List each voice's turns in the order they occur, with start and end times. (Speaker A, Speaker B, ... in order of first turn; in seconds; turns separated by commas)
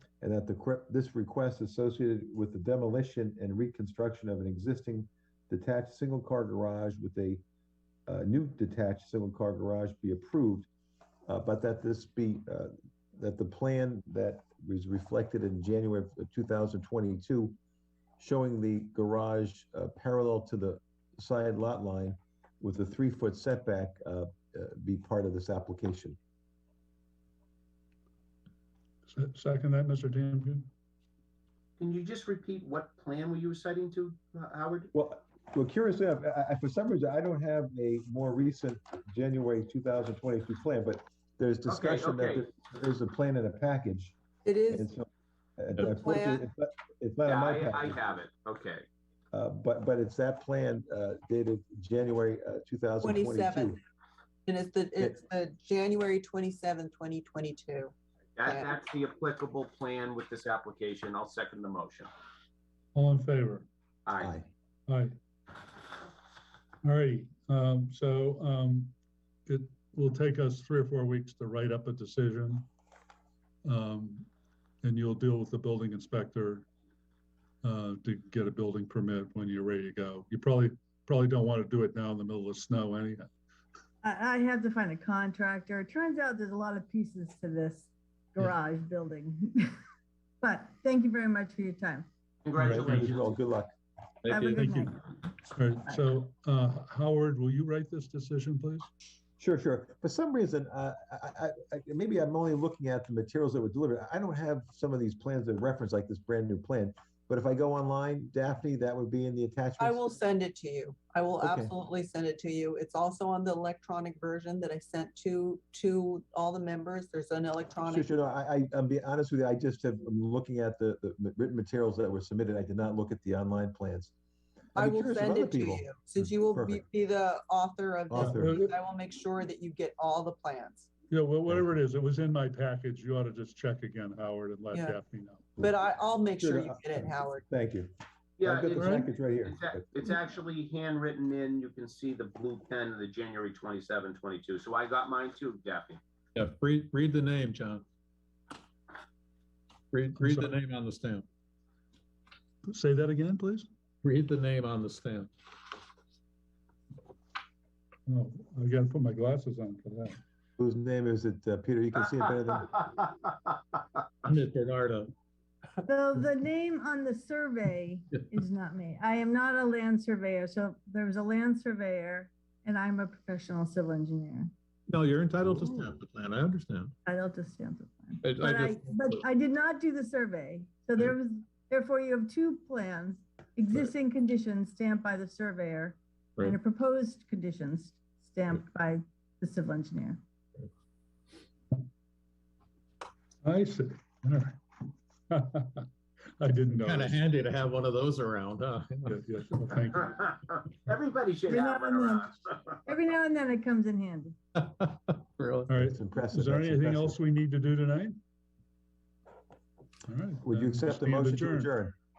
Speaker A: 0.2-7.4, Speaker A: 8.1-10.7, Speaker A: 11.3-17.6, Speaker A: 18.2-26.2, Speaker B: 29.1-30.7, Speaker C: 31.8-34.9, Speaker A: 34.9-44.1, Speaker C: 41.6-42.5, Speaker D: 44.4-44.9, Speaker A: 44.7-48.0, Speaker D: 45.8-46.5, Speaker C: 47.2-48.9, Speaker A: 49.3-53.8, Speaker D: 53.0-53.8, Speaker D: 54.5-57.9, Speaker C: 58.4-62.1, Speaker D: 58.4-58.7, Speaker B: 62.9-63.7, Speaker C: 64.0-64.3, Speaker A: 64.2-64.5, Speaker B: 64.9-65.1, Speaker B: 66.8-72.7, Speaker B: 73.6-74.3, Speaker B: 74.8-76.7, Speaker B: 77.6-83.3, Speaker E: 84.0-87.9, Speaker E: 88.4-89.4, Speaker E: 90.4-92.0, Speaker C: 92.4-93.4, Speaker B: 92.6-93.1, Speaker A: 92.6-93.7, Speaker F: 94.2-94.6, Speaker E: 94.3-94.8, Speaker B: 94.5-98.9, Speaker A: 99.4-110.0, Speaker D: 109.8-118.1, Speaker A: 111.4-111.7, Speaker A: 117.8-124.1, Speaker A: 124.8-126.8, Speaker D: 124.8-130.9, Speaker A: 128.1-128.6, Speaker B: 128.1-128.7, Speaker B: 131.1-135.5, Speaker D: 134.7-135.0, Speaker D: 135.6-137.4, Speaker A: 136.4-137.9, Speaker C: 138.4-146.0, Speaker A: 138.4-139.8, Speaker B: 138.8-139.1, Speaker F: 146.3-147.8, Speaker F: 149.9-151.3, Speaker B: 150.1-150.6, Speaker B: 152.6-153.7, Speaker F: 154.0-155.3, Speaker B: 158.1-160.2, Speaker A: 160.6-162.8, Speaker C: 162.9-163.3, Speaker F: 164.2-165.1, Speaker E: 165.9-174.4, Speaker F: 174.9-176.9, Speaker E: 177.1-181.0, Speaker F: 178.2-179.2, Speaker E: 181.7-185.9, Speaker E: 186.4-188.8, Speaker E: 189.5-190.1, Speaker B: 193.4-194.6, Speaker B: 195.3-195.9, Speaker B: 196.4-197.2, Speaker F: 196.8-199.2, Speaker B: 199.1-200.1, Speaker C: 200.1-202.9, Speaker E: 201.6-202.2, Speaker E: 202.9-204.3, Speaker F: 204.5-205.7, Speaker B: 205.7-208.2, Speaker A: 205.8-207.2, Speaker B: 210.1-211.7, Speaker A: 210.4-211.9